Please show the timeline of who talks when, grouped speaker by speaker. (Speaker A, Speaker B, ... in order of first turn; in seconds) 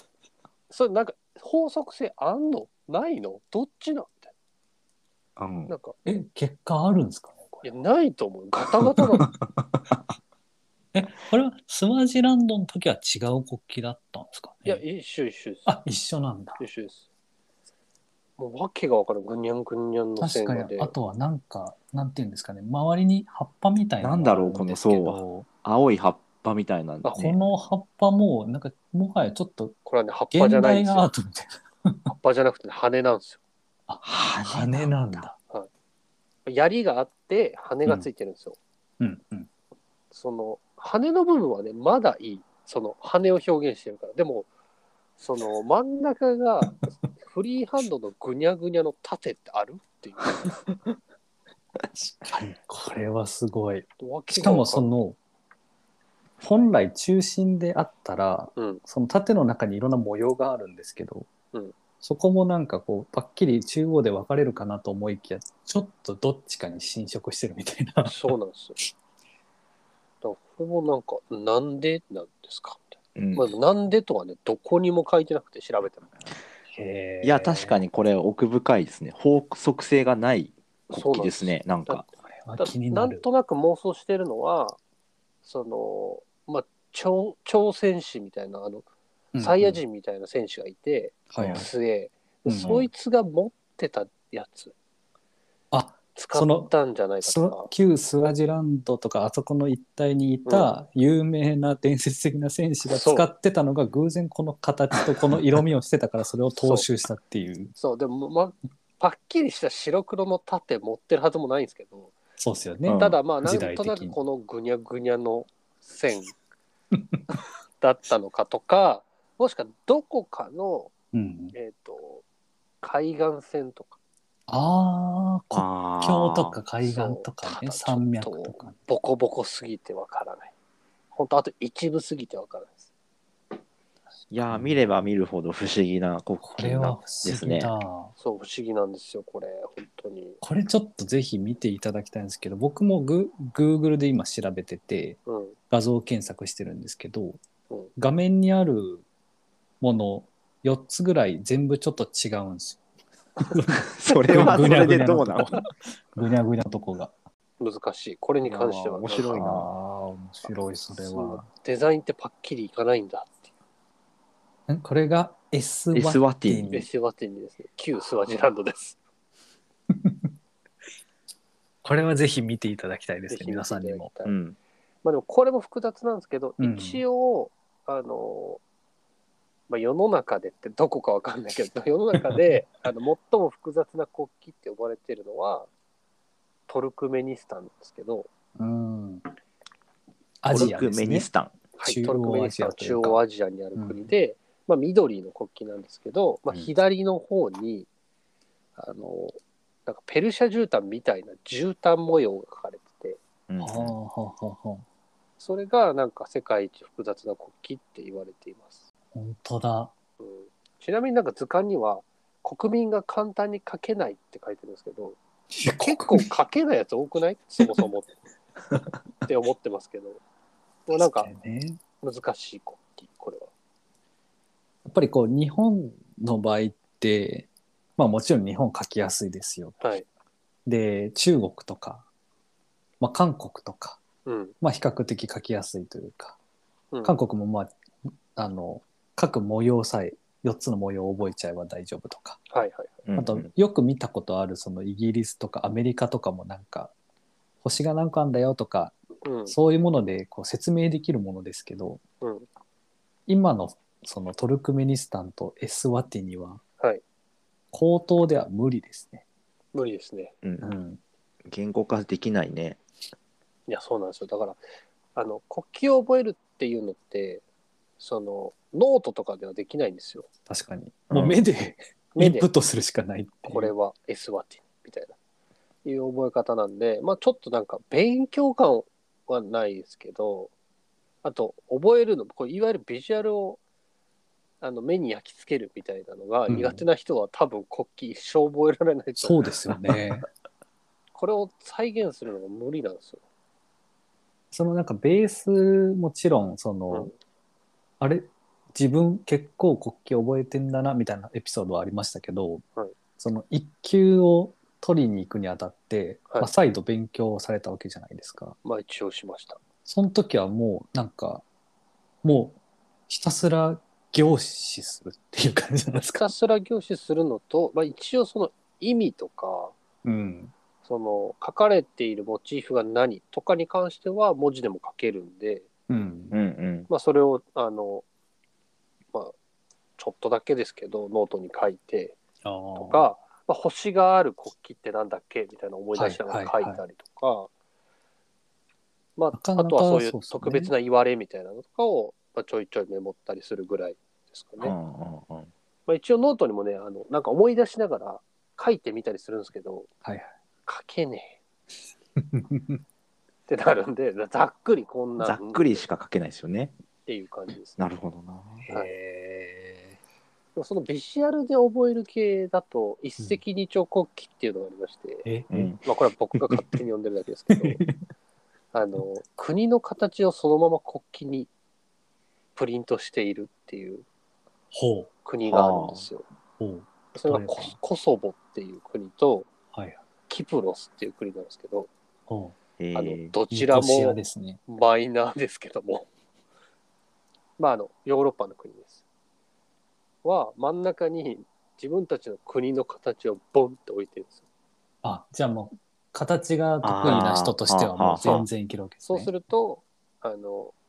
Speaker A: 0.7-4.3, 5.7-5.9, 7.6-9.3, 14.7-15.7, 16.6-17.0, 18.4-20.9, 29.9-31.1, 32.1-33.4, 36.5-38.6, 40.1-44.5, 45.2-50.6, 54.0-54.9, 58.5-58.8, 68.0-68.8, 70.2-76.1, 80.9-84.8, 85.4-88.8, 89.4-94.7, 96.1-97.7, 102.9-103.3, 106.6-106.8, 107.8-112.1, 112.9-116.3, 117.8-120.9, 121.5-122.2, 122.8-124.0, 126.8-130.5, 131.1-132.9, 138.2-140.4, 145.2-145.6, 157.6-159.4, 160.9-163.5, 166.7-169.0, 173.3-174.3, 175.0-178.6, 179.7-185.7, 186.7-188.3, 191.8-197.9, 198.8-203.2, 205.4-208.8, 210.2-215.2, 215.8-218.1, 219.2-220.2, 220.9-221.3, 222.0-223.5, 229.8-230.1, 234.2-234.5, 236.9-237.2, 242.5-243.0, 249.2-249.5, 259.7-260.3, 263.7-264.6, 265.1-267.4, 268.0-270.3, 272.1-272.5, 273.4-275.1, 275.8-280.5, 281.2-283.6, 284.6-289.5, 291.1-293.2, 308.6-309.6, 315.9-319.7, 320.8-325.7, 326.9-328.0, 330.0-332.2, 332.8-337.5, 339.2-344.7, 345.9-349.9, 350.7-351.4, 353.5-355.8, 357.1-357.8, 360.6-365.2, 365.8-367.8, 368.7-371.5, 372.6-374.0, 375.2-376.2, 377.1-379.5, 380.3-381.9, 382.9-386.1, 387.6-389.0, 390.2-394.4, 399.1-400.7
Speaker B: 5.4-5.7, 9.4-9.9, 24.0-27.4, 34.0-35.2, 73.2-73.5, 77.2-82.0, 112.9-113.2, 125.5-126.6, 134.3-137.7, 153.9-155.6, 158.4-159.7, 165.9-166.8, 174.2-174.6, 190.5-191.6, 203.5-203.9, 243.1-243.5, 261.4-262.8, 271.1-271.4, 326.3-326.9, 344.6-345.5, 355.2-356.7, 357.8-358.6, 365.5-365.8, 375.4-376.1, 382.8-383.3, 396.8-398.4
Speaker C: 6.0-7.7, 10.9-14.8, 15.7-16.6, 20.2-25.5, 27.1-29.8, 30.3-32.1, 33.9-35.4, 39.0-39.5, 51.9-55.2, 56.4-61.3, 62.0-68.3, 76.7-77.8, 82.2-83.2, 89.3-89.8, 91.3-91.7, 92.5-92.9, 95.7-107.7, 112.4-114.2, 117.0-117.2, 121.1-121.5, 124.5-128.8, 134.4-134.9, 136.4-138.1, 140.4-145.2, 145.7-147.4, 147.9-149.0, 149.8-152.8, 153.4-157.1, 159.3-161.5, 164.7-166.9, 169.9-170.2, 171.8-174.1, 176.6-177.0, 182.2-182.5, 188.6-189.2, 190.4-191.3, 191.8-193.2, 193.8-194.0, 203.6-204.8, 209.1-209.9, 215.5-216.3, 221.0-221.8, 224.8-229.8, 230.7-232.0, 233.0-234.0, 234.6-236.4, 237.0-237.7, 238.3-242.4, 243.1-246.9, 247.6-248.9, 249.5-252.0, 253.3-256.6, 257.7-259.2, 260.6-261.0, 270.5-273.7, 286.5-286.8, 289.2-290.3, 294.5-297.1, 298.0-302.6, 303.2-308.6, 309.9-311.4, 312.2-312.6, 313.1-316.3, 320.0-320.5, 325.9-326.4, 332.4-333.1, 335.9-336.8, 339.3-340.7, 350.0-350.3, 352.2-352.8, 358.6-360.0, 365.2-365.7, 367.5-367.9, 374.7-375.1, 376.6-377.8, 379.7-380.0, 382.3-382.6, 383.5-384.6, 395.0-399.3